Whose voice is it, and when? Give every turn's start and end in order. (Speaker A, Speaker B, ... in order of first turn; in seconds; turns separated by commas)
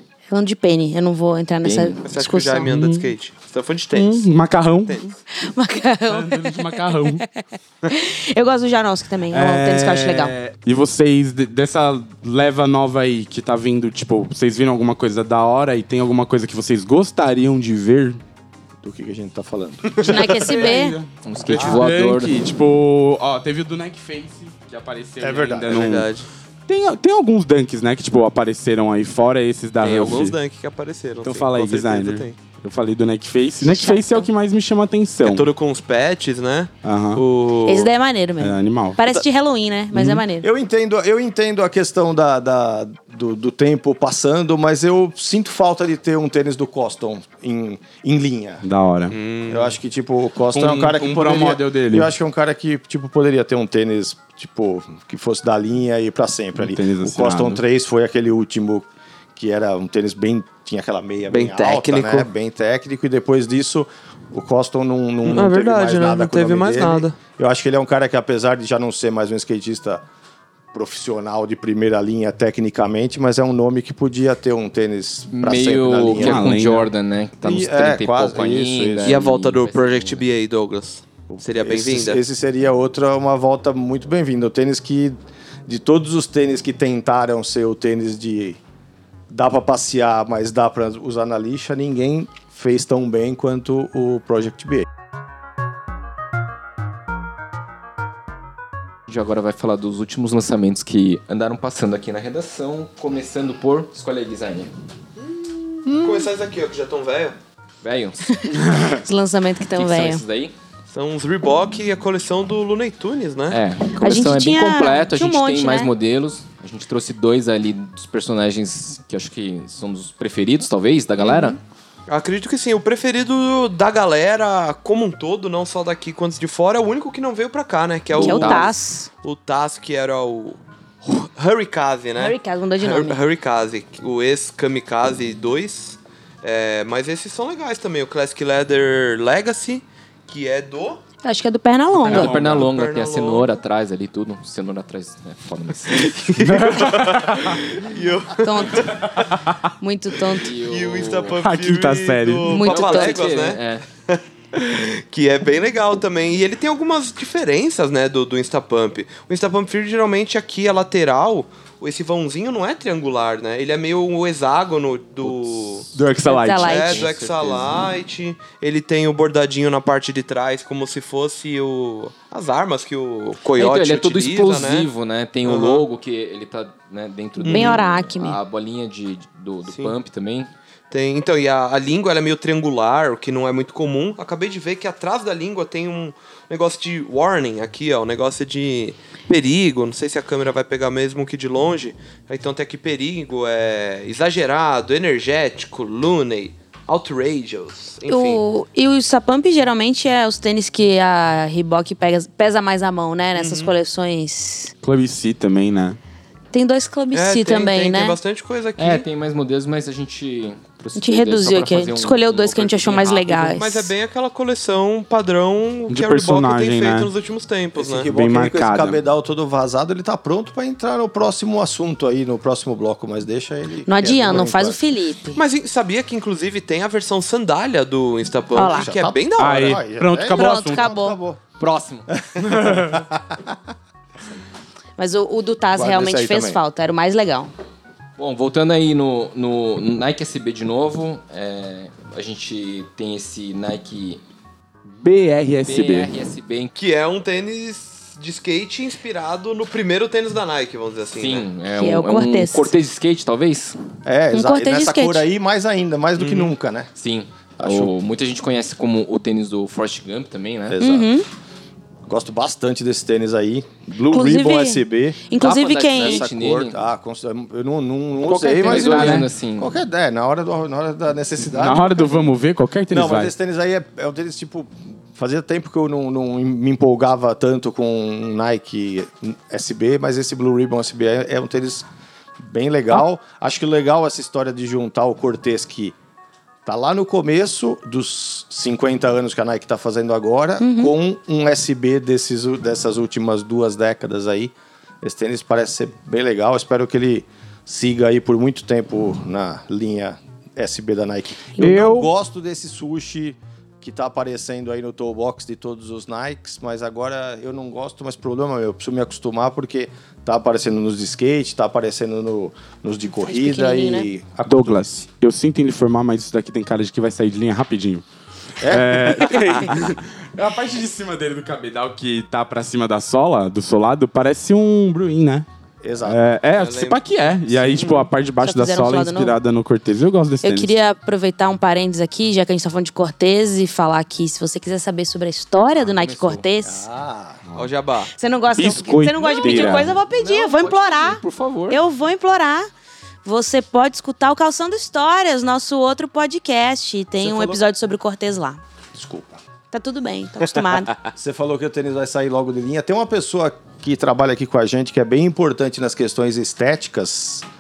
Speaker A: 0.3-2.7, Speaker B: 1.6-2.0, Speaker C: 2.0-4.3, Speaker D: 2.7-3.1, Speaker D: 3.9-5.1, Speaker C: 4.8-5.2, Speaker A: 5.3-10.3, Speaker D: 6.1-7.2, Speaker D: 9.3-18.2, Speaker E: 18.8-20.4, Speaker D: 20.0-26.1, Speaker A: 20.0-21.0, Speaker B: 21.2-22.4, Speaker E: 21.6-21.9, Speaker E: 25.2-26.1, Speaker C: 25.7-26.3, Speaker D: 26.7-30.4, Speaker C: 29.8-32.4, Speaker D: 31.2-35.5, Speaker A: 33.6-34.3, Speaker C: 35.2-37.9, Speaker D: 36.8-37.2, Speaker A: 37.7-40.5, Speaker D: 38.4-39.0, Speaker D: 39.9-40.2, Speaker E: 40.4-48.6, Speaker D: 48.6-49.2, Speaker C: 49.1-49.8, Speaker E: 49.5-70.0, Speaker D: 50.5-52.1, Speaker D: 56.6-57.6, Speaker C: 61.3-62.3, Speaker C: 65.2-67.2, Speaker E: 70.7-76.5, Speaker B: 75.3-80.2, Speaker D: 76.2-76.9, Speaker E: 77.4-79.2, Speaker C: 79.0-82.2, Speaker E: 81.3-85.2, Speaker E: 85.7-88.6, Speaker E: 89.3-94.9, Speaker B: 99.1-104.7, Speaker C: 105.2-107.3, Speaker E: 105.9-106.3, Speaker B: 107.8-108.4, Speaker A: 108.3-110.2, Speaker D: 108.5-109.0, Speaker B: 109.7-110.5, Speaker C: 110.9-113.6, Speaker B: 113.5-121.6, Speaker A: 114.0-115.9, Speaker A: 121.2-121.6, Speaker C: 122.1-141.0, Speaker B: 128.1-128.7, Speaker A: 128.2-129.1, Speaker A: 132.2-133.2, Speaker A: 141.2-142.3, Speaker D: 142.0-142.7, Speaker B: 142.0-146.3, Speaker C: 142.4-143.6, Speaker C: 145.9-149.2, Speaker D: 146.4-147.7, Speaker A: 148.4-149.0, Speaker D: 148.9-149.7, Speaker A: 149.8-150.5, Speaker B: 150.3-151.4, Speaker C: 150.6-165.9, Speaker D: 151.4-152.6, Speaker A: 152.5-153.2, Speaker B: 152.7-153.8, Speaker D: 165.9-167.1, Speaker A: 166.2-167.1, Speaker C: 166.6-174.9, Speaker B: 166.8-167.8, Speaker B: 173.6-180.5, Speaker C: 175.4-175.8, Speaker C: 177.4-177.8, Speaker A: 177.5-178.4, Speaker C: 179.7-179.9, Speaker C: 180.9-198.4, Speaker A: 198.1-204.7, Speaker C: 203.3-203.7, Speaker D: 204.8-206.0, Speaker A: 206.5-208.2, Speaker C: 207.1-209.1, Speaker B: 208.8-213.6, Speaker A: 211.0-213.9, Speaker C: 213.6-218.1, Speaker D: 215.9-217.1, Speaker E: 217.8-224.8, Speaker D: 218.1-219.0, Speaker A: 223.9-225.4, Speaker C: 225.4-229.8, Speaker A: 228.6-228.9, Speaker E: 228.6-231.4, Speaker D: 229.4-230.9, Speaker A: 230.3-231.2, Speaker B: 231.6-232.1, Speaker E: 232.1-233.6, Speaker D: 232.4-233.0, Speaker A: 235.0-237.5, Speaker E: 235.7-236.6, Speaker B: 238.2-244.2, Speaker D: 245.0-246.1, Speaker B: 245.7-246.8, Speaker C: 246.8-251.5, Speaker B: 251.1-253.8, Speaker A: 251.7-252.7, Speaker E: 254.1-256.9, Speaker A: 254.3-255.2, Speaker C: 256.2-256.5, Speaker B: 257.0-260.8, Speaker E: 257.6-257.9, Speaker E: 260.7-261.1, Speaker A: 260.8-261.3, Speaker E: 262.1-272.3, Speaker A: 264.1-266.3, Speaker B: 265.4-266.8, Speaker B: 268.3-269.8, Speaker D: 268.6-269.3, Speaker D: 271.5-273.3, Speaker E: 272.9-281.9, Speaker E: 282.4-286.0, Speaker E: 286.6-314.9, Speaker A: 290.6-290.9, Speaker A: 301.6-301.9, Speaker D: 301.6-302.1, Speaker A: 313.2-314.1, Speaker D: 314.5-318.1, Speaker E: 318.6-319.8, Speaker D: 318.6-325.5, Speaker E: 325.8-326.2, Speaker D: 326.1-330.8, Speaker C: 326.5-328.1, Speaker A: 328.4-329.4, Speaker A: 330.4-336.9, Speaker B: 335.8-336.5, Speaker E: 336.6-337.4, Speaker C: 337.6-338.1, Speaker A: 338.1-342.7, Speaker D: 338.6-340.0, Speaker B: 339.6-341.8, Speaker A: 343.2-348.6, Speaker E: 347.2-347.6, Speaker E: 348.9-349.4, Speaker A: 349.7-351.0, Speaker E: 351.1-357.5